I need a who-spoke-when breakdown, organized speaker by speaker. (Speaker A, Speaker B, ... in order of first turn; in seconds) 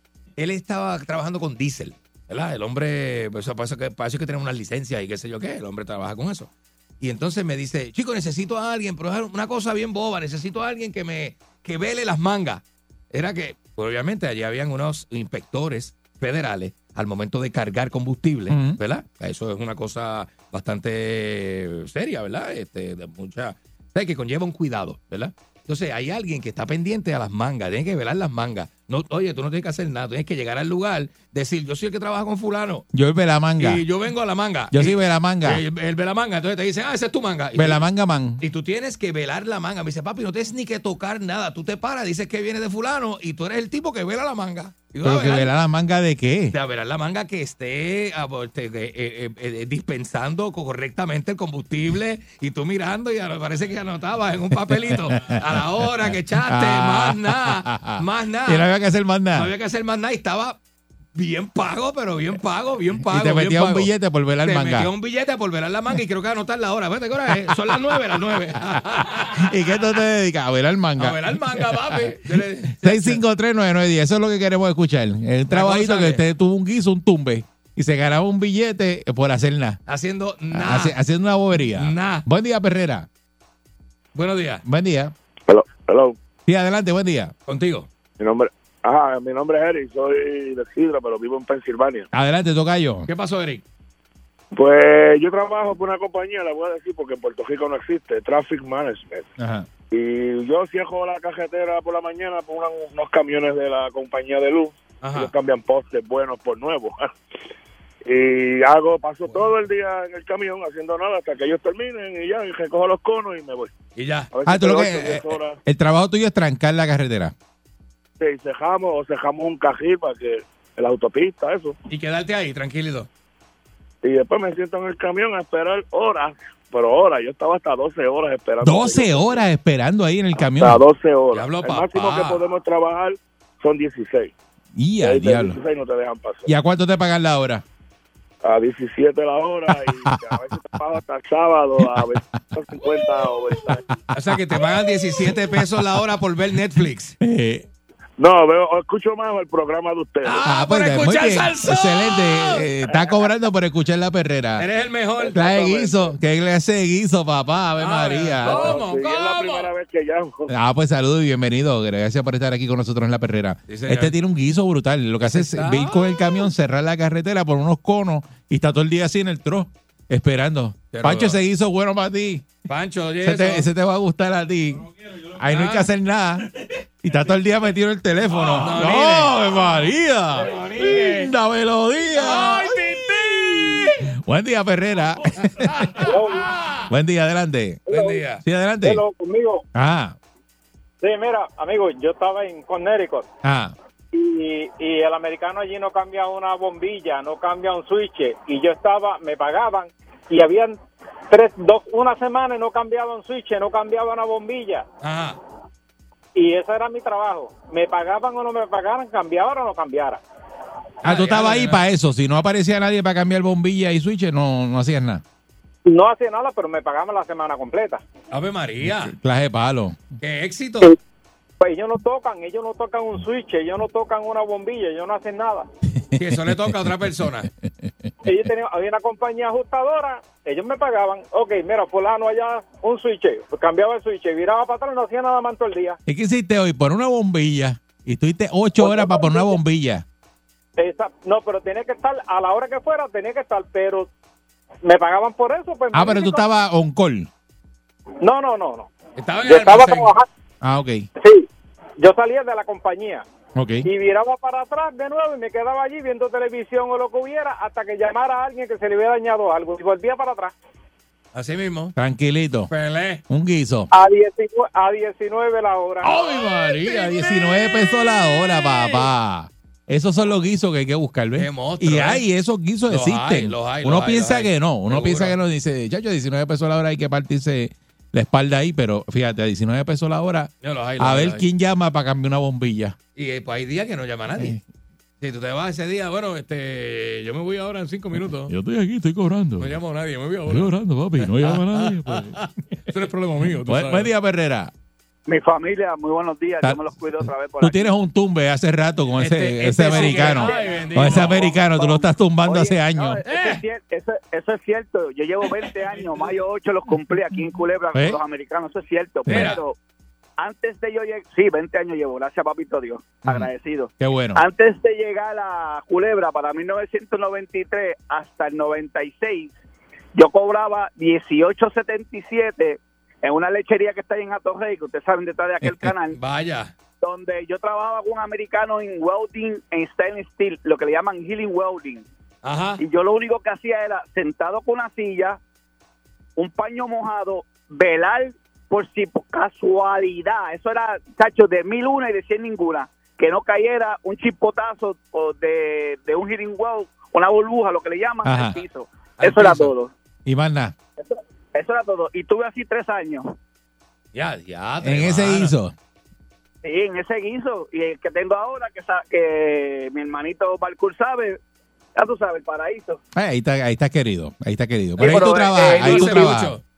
Speaker A: 0.4-32.9, 33.6-37.8, 38.4-45.5, 46.5-58.7, 59.3-60.6, 61.1-63.9, 64.4-69.5, 71.0-73.2, 75.5-76.2, 79.9-81.0, 81.7-82.2, 84.1-84.6, 87.5-87.9, 93.1-93.6, 105.0-105.3, 114.0-114.3, 121.9-123.1, 131.3-132.4, 144.1-147.2, 150.2-152.7, 154.6-156.1, 157.8-159.7, 163.7-164.1, 165.2-166.4, 170.9-171.4, 172.7-173.7, 175.5-175.9, 178.4-179.3, 180.3-181.3, 182.2-183.9, 185.4-186.9, 187.9-188.4, 205.0-205.4, 211.0-211.8, 218.3-219.1, 220.2-221.0, 226.2-227.5, 249.2-250.1, 261.3-261.9, 262.7-263.2, 266.0-267.4, 271.4-272.2, 272.9-275.4, 280.6-281.4, 283.1-284.6, 285.2-288.5, 289.6-294.1, 299.1-301.6, 303.2-303.6, 309.3-309.6, 326.1-326.7, 332.4-332.8, 349.2-349.7, 354.1-355.5, 365.0-366.6
Speaker B: 18.5-18.8, 32.9-33.8, 34.7-35.6, 37.5-38.4, 45.0-46.5, 54.9-55.4, 56.5-59.5, 63.0-64.9, 67.3-68.0, 69.2-72.1, 72.7-79.8, 80.5-83.1, 84.6-85.1, 86.5-87.3, 92.1-93.1, 99.4-99.7, 114.5-117.3, 128.6-130.8, 134.7-135.6, 136.5-137.6, 140.1-140.3, 145.3-145.9, 147.2-147.7, 150.4-154.7, 155.3-158.8, 160.5-172.5, 173.2-176.4, 177.0-185.9, 186.9-187.8, 188.4-189.0, 189.7-190.2, 193.4-193.7, 211.0-215.2, 218.8-220.0, 226.2-226.5, 236.1-240.0, 245.9-247.3, 250.6-251.1, 253.5-253.9, 261.9-262.7, 263.3-263.9, 266.7-282.9, 288.5-289.8, 290.5-292.4, 293.6-294.7, 296.6-303.2, 307.9-308.2, 309.3-309.6, 313.2-314.4, 348.2-348.6, 350.2-350.7, 354.8-355.7, 363.1-366.5
Speaker C: 85.5-86.2, 88.2-92.1, 94.5-99.3, 99.9-107.1, 108.0-113.7, 114.3-115.6, 118.2-121.7, 124.0-129.5, 130.3-134.3, 135.0-136.5, 138.4-143.8, 148.2-150.4, 158.4-160.5
Speaker D: 186.0-186.5, 187.9-188.2, 188.8-189.6, 191.0-193.3, 194.1-200.8, 201.3-204.8, 206.3-210.2, 215.8-218.0, 221.6-225.7, 228.2-236.0, 238.8-239.6, 240.8-244.1, 244.8-246.4, 248.2-248.9, 249.4-250.2, 251.2-251.4, 252.0-253.2, 253.8-260.5, 263.9-266.2
Speaker E: 295.3-297.9, 299.9-309.8, 310.4-319.5, 320.1-326.2, 327.0-332.1, 332.8-335.4, 336.4-349.9, 351.0-353.3, 356.6-361.4, 361.9-363.0, 365.0-366.2